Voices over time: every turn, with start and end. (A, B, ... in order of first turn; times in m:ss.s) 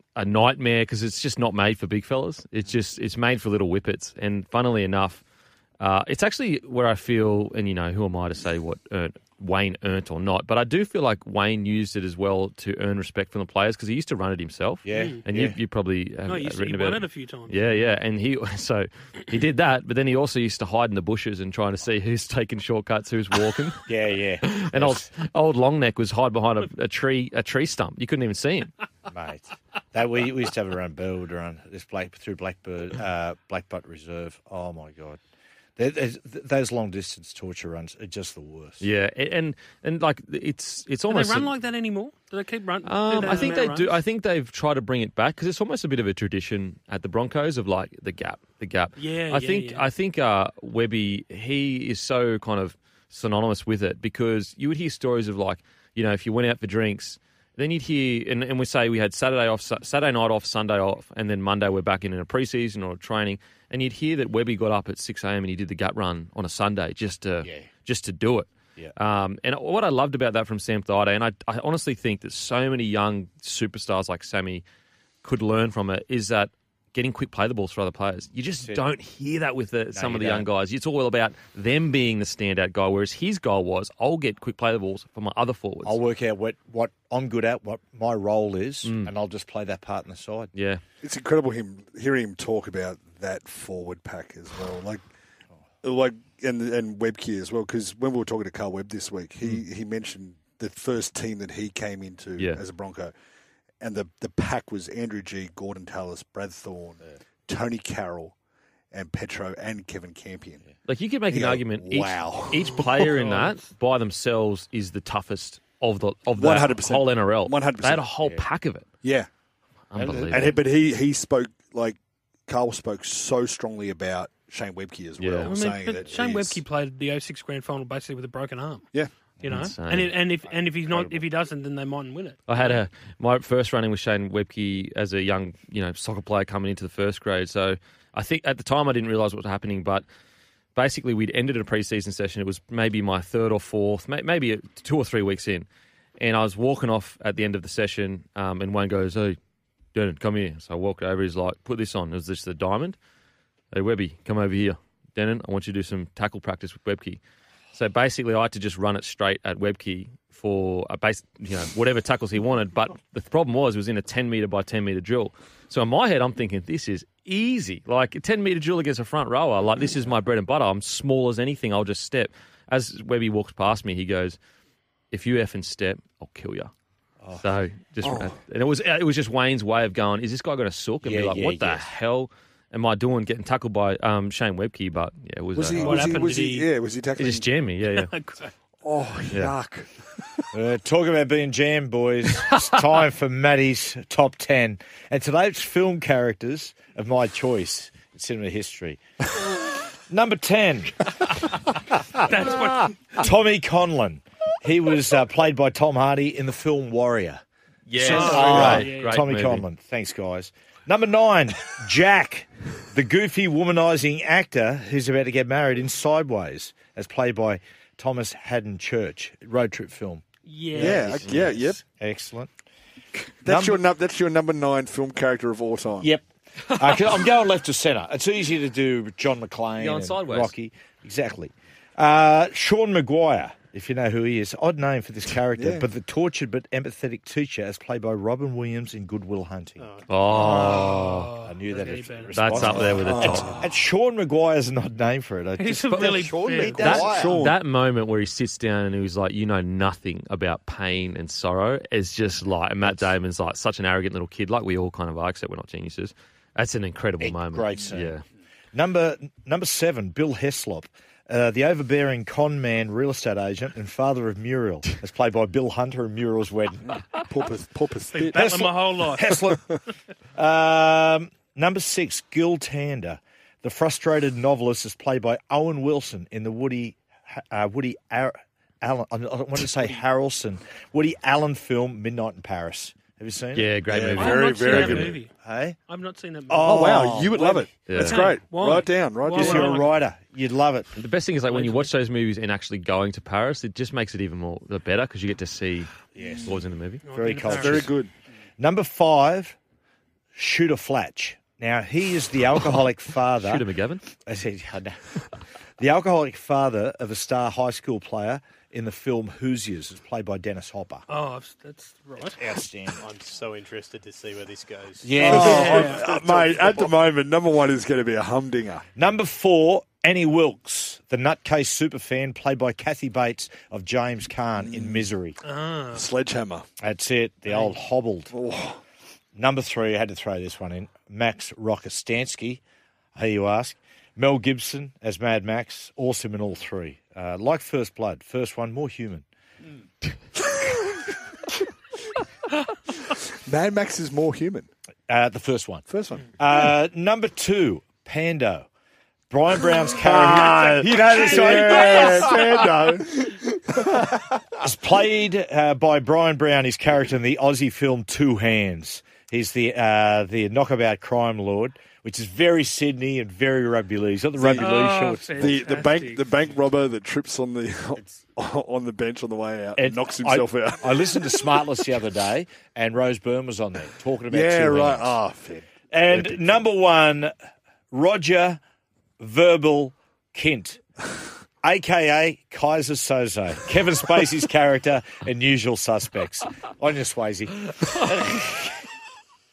0:00.2-0:05.2 A
0:05.8-0:23.8 A
0:14.8-0:15.6 B
0:14.9-0:15.2 C
0:16.2-0:17.9 C
0:23.9-0:25.1 B
0:24.4-0:28.7 A
0:29.1-0:35.2 B
0:35.8-0:38.9 B
0:38.8-0:41.5 A
0:41.1-0:44.0 C
0:42.8-1:14.6 A
0:49.0-0:49.9 C
1:07.4-1:07.7 B
1:15.2-1:26.0 A
1:19.9-1:20.5 B
1:25.8-1:30.5 B
1:28.8-1:29.1 A
1:30.6-1:30.8 A
1:31.0-1:35.0 D
1:35.8-1:43.1 D
1:43.8-1:48.4 D
1:48.9-1:50.6 D
1:50.9-1:58.9 A
1:51.3-1:53.4 D
1:56.4-1:58.1 D
1:59.0-1:59.3 D
1:59.9-2:00.6 A
2:00.0-2:06.6 D
2:00.0-2:00.5 B
2:05.2-2:05.6 A
2:05.4-2:08.9 C
2:09.4-2:10.2 A
2:09.4-2:12.4 C
2:10.4-2:11.3 D
2:12.5-2:20.0 A
2:20.8-2:25.7 A
2:26.2-2:29.4 A
2:29.9-2:33.0 A
2:33.7-2:37.2 A
2:37.7-2:54.4 A
2:55.1-2:56.7 A
2:57.2-2:57.5 B
2:57.4-3:06.1 A
2:58.0-2:58.4 D
3:01.0-3:01.9 B
3:05.5-3:07.5 D
3:05.8-3:06.7 C
3:07.2-3:08.1 A
3:07.8-3:08.5 C
3:08.8-3:09.9 D
3:09.3-3:09.6 A
3:10.5-3:21.1 B
3:22.2-3:23.0 C
3:23.2-3:27.4 B
3:27.9-3:29.6 A
3:27.9-3:42.5 B
3:28.0-3:29.2 C
3:40.5-3:41.0 C
3:40.8-3:41.8 D
3:41.2-3:41.5 A
3:43.4-3:46.1 D
3:43.4-3:43.8 B
3:46.0-4:07.5 B
3:49.8-3:50.5 A
3:55.5-3:55.9 D
3:59.8-4:00.3 E
4:00.1-4:01.3 A
4:00.4-4:03.0 C
4:02.3-4:03.6 A
4:03.0-4:03.6 D
4:05.6-4:07.1 C
4:06.0-4:07.6 D
4:06.8-4:18.2 A
4:17.2-4:18.2 B
4:18.7-4:27.0 B
4:27.3-4:28.6 D
4:28.1-4:29.4 C
4:28.2-4:29.7 B
4:29.2-4:29.7 D
4:30.4-4:43.8 B
4:43.5-4:45.1 A
4:43.9-4:45.2 D
4:44.1-4:45.3 C
4:45.4-4:45.8 B
4:45.9-4:47.0 C
4:46.5-4:47.7 B
4:46.6-4:49.9 D
4:47.9-4:48.3 A
4:47.9-4:50.0 C
4:49.3-4:50.9 B
4:51.0-4:57.0 A
4:51.5-4:51.9 C
4:56.2-4:56.6 B
4:57.0-4:57.9 C
4:57.1-4:58.0 B
4:57.4-4:58.1 D
4:58.6-4:59.6 B
5:00.4-5:03.7 B
5:03.4-5:04.0 A
5:04.2-5:05.2 B
5:05.8-5:11.0 B
5:11.1-5:12.4 C
5:12.2-5:13.1 B
5:13.0-5:16.9 E
5:15.0-5:15.9 B
5:15.2-5:18.8 D
5:15.5-5:16.1 C
5:19.0-5:25.4 B
5:24.6-5:25.1 D
5:25.4-5:26.1 C
5:25.9-5:26.6 D
5:26.8-5:28.3 B
5:27.5-5:27.8 C
5:28.3-5:28.8 D
5:29.4-5:32.6 B
5:33.2-5:39.2 B
5:43.1-5:44.7 D
5:45.1-5:45.8 B
5:45.9-5:46.3 D
5:46.4-5:48.7 B
5:49.3-5:52.8 B
5:49.9-5:54.1 D
5:51.2-5:52.3 C
5:54.6-6:05.6 B
6:04.4-6:11.0 D
6:04.6-6:06.5 C
6:09.8-6:15.2 B
6:14.3-6:16.5 D
6:15.9-6:17.3 B
6:17.9-6:18.6 B
6:19.2-6:20.8 B
6:21.6-6:28.8 B